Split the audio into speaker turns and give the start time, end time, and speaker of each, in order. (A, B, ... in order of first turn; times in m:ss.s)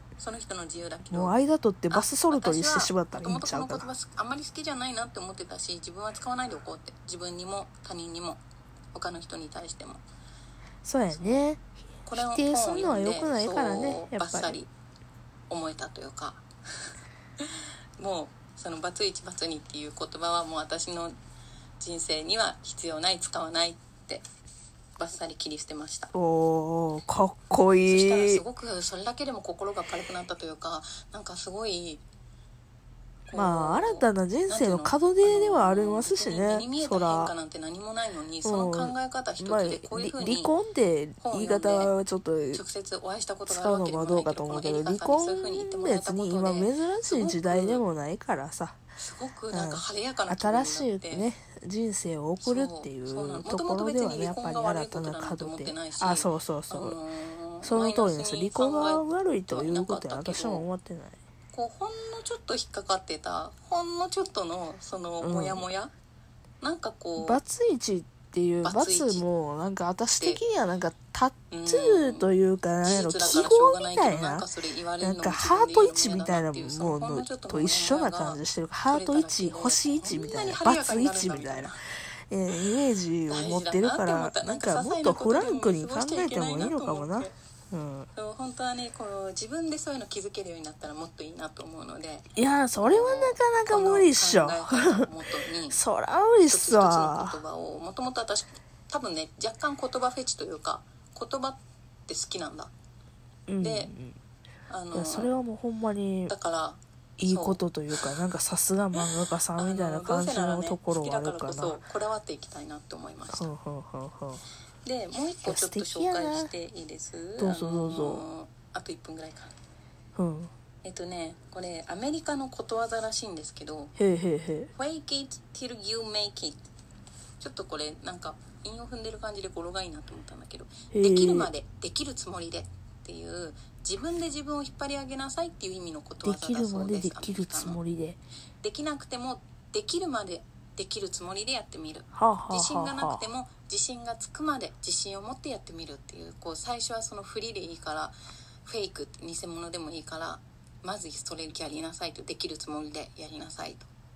0:00.2-0:01.4 A
0:01.1-0:03.9 B
0:01.9-0:08.4 A
0:08.9-0:10.0 A
0:10.8-0:14.6 B
0:11.1-0:11.4 A
0:12.0-0:14.7 A
0:15.5-0:16.4 A
0:17.4-0:21.2 A
0:21.8-0:24.2 A
0:25.0-0:26.1 A
0:26.1-0:28.4 B
0:27.8-0:32.0 A
0:33.3-0:40.5 A
0:33.3-0:37.3 B
0:38.4-0:42.6 B
0:41.2-0:41.9 A
0:42.5-0:47.8 A
0:43.5-0:48.8 B
0:49.0-0:51.3 A
0:49.5-0:57.0 B
0:52.4-1:00.6 A
0:57.6-1:01.2 B
1:01.5-1:05.9 A
1:05.2-1:05.6 B
1:06.6-1:07.4 A
1:07.2-1:14.4 B
1:08.6-1:09.2 A
1:11.5-1:12.3 A
1:12.8-1:21.8 A
1:15.0-1:21.7 B
1:22.3-1:28.1 B
1:23.3-1:27.3 A
1:28.1-1:35.8 A
1:32.3-1:35.1 B
1:35.7-1:37.4 B
1:36.5-1:42.7 A
1:43.5-1:44.2 B
1:43.6-1:43.9 A
1:44.7-1:45.3 A
1:44.9-1:46.3 B
1:46.3-1:47.6 A
1:47.2-1:51.8 B
1:49.0-1:53.5 A
1:53.3-1:54.4 B
1:54.8-1:59.5 A
1:55.4-1:56.5 B
1:57.4-1:58.2 B
2:00.2-2:00.5 B
2:00.8-2:03.9 A
2:04.0-2:04.7 B
2:04.7-2:06.6 A
2:07.4-2:17.8 A
2:10.9-2:11.5 B
2:16.2-2:18.2 B
2:18.6-2:33.9 A
2:22.1-2:23.2 B